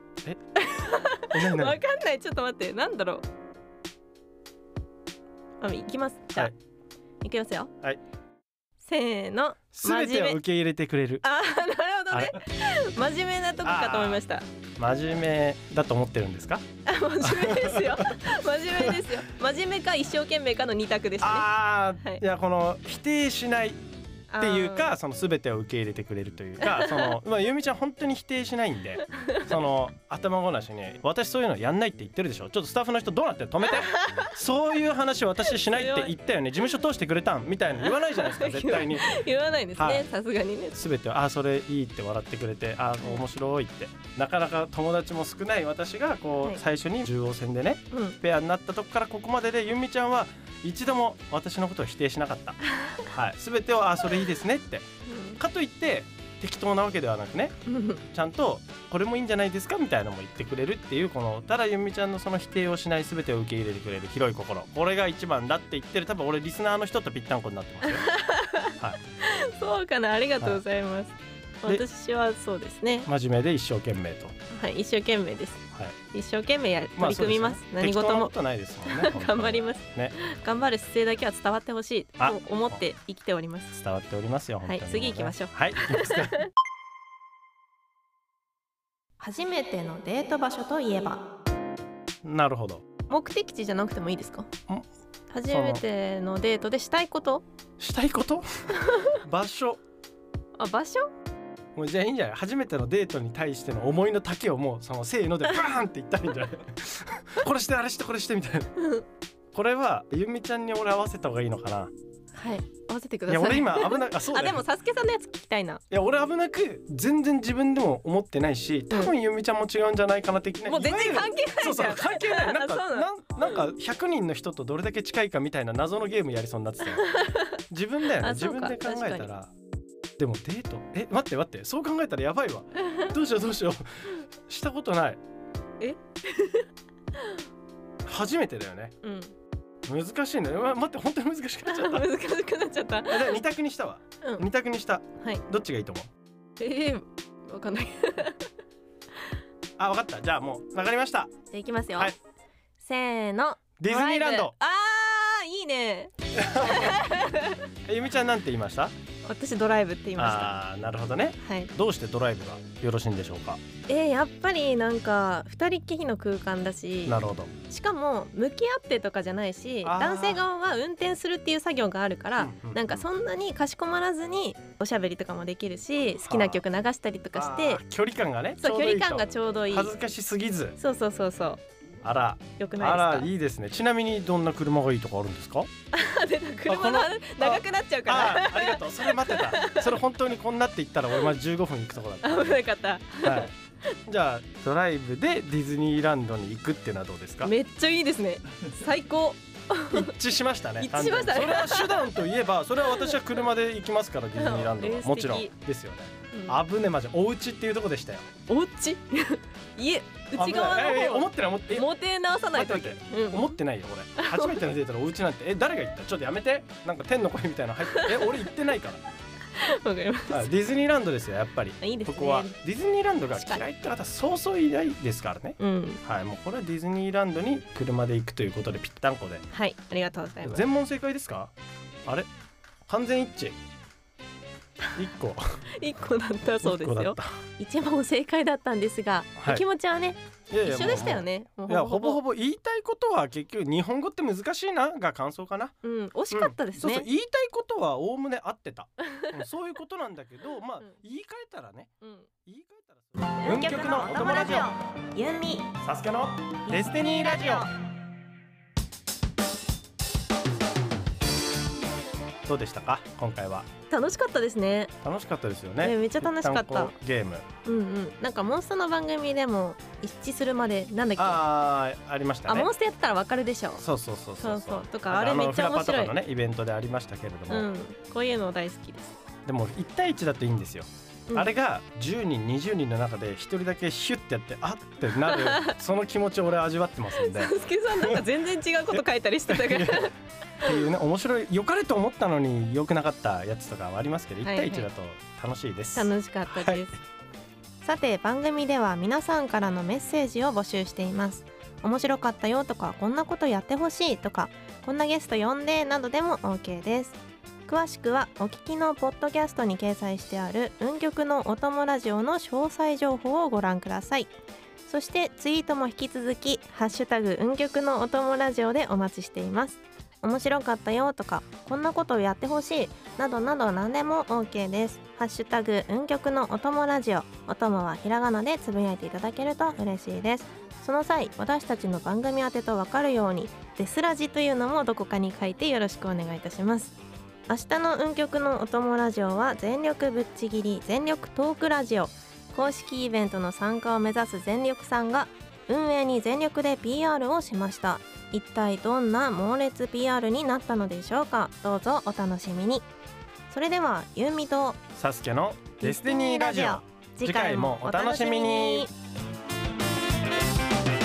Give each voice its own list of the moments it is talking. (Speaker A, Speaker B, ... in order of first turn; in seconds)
Speaker A: 0.6-3.2, 5.6-6.5, 7.2-7.7, 8.8-10.4, 11.2-14.4, 16.9-21.5, 24.3-24.9, 26.6-27.2, 29.1-29.5, 33.7-34.3, 35.5-36.1, 37.9-40.8, 47.9-48.2, 55.0-55.4, 57.7-58.0, 67.8-73.1, 74.5-78.3, 78.8-83.7, 84.6-86.5, 89.2-91.2, 93.1-94.5, 95.3-97.4, 98.8-99.1, 100.6-101.1, 108.8-109.0, 112.3-115.8, 120.7-123.6, 126.8-127.6, 128.2-129.3, 132.8-133.1, 135.8-137.4, 139.0-139.3, 141.7-143.4, 146.6-148.5, 151.5-152.1, 152.8-157.6, 159.2-160.6, 161.4-161.7, 163.9-177.8, 178.6-179.9, 180.8-181.6, 182.6-183.3, 185.9-190.0, 192.2-193.5, 197.4-200.1, 200.8-202.2, 202.8-203.2, 204.3-205.5, 206.3-206.6, 208.5-213.6, 214.2-214.6, 217.8-218.4, 219.5-220.5, 221.8-222.5, 223.3-223.6, 225.6-226.0, 229.5-230.6, 235.8-242.2, 245.8-247.1, 252.0-252.3, 253.4-255.7, 256.7-257.7, 263.9-264.9, 265.8-266.9, 267.6-271.4, 272.5-273.8, 274.4-276.1, 277.5-279.2, 285.2-285.8, 287.1-290.1, 294.4-294.9, 295.9-297.0, 297.8-314.3, 314.9-336.9, 337.5-352.9, 353.5-354.8, 355.8-358.9
Speaker B: 1.3-1.8, 9.7-11.2, 12.1-12.4, 13.6-14.2, 14.8-16.6, 17.2-18.2, 18.7-19.1, 21.2-23.8, 24.4-39.2, 39.8-40.0, 40.7-54.8, 55.4-57.5, 58.1-68.1, 73.0-74.3, 77.0-80.2, 82.2-82.8, 83.7-86.4, 92.2-92.9, 95.5-95.8, 97.8-98.5, 99.2-99.8, 101.7-108.7, 109.5-111.9, 113.3-114.6, 115.9-127.1, 127.7-129.5, 130.2-135.2, 138.0-138.9, 139.8-142.1, 143.1-146.1, 149.8-151.3, 153.8-154.5, 156.3-157.1, 157.8-158.9, 160.2-163.6, 167.1-167.5, 169.8-170.4, 172.4-173.1, 176.2-176.6, 177.3-180.8, 182.0-185.7, 186.7-192.6, 193.2-193.5, 194.1-197.5, 199.9-208.3, 210.3-211.9, 212.5-219.0, 220.3-229.4, 230.4-231.5, 232.9-233.6, 234.9-235.4, 236.6-237.3, 239.4-239.7, 240.5-245.7, 246.3-251.9, 252.4-254.7, 255.8-257.7, 262.4-263.7, 265.0-267.4, 271.2-272.7, 273.8-277.7, 279.4-288.2, 288.9-290.1, 290.6-296.8, 354.9-358.9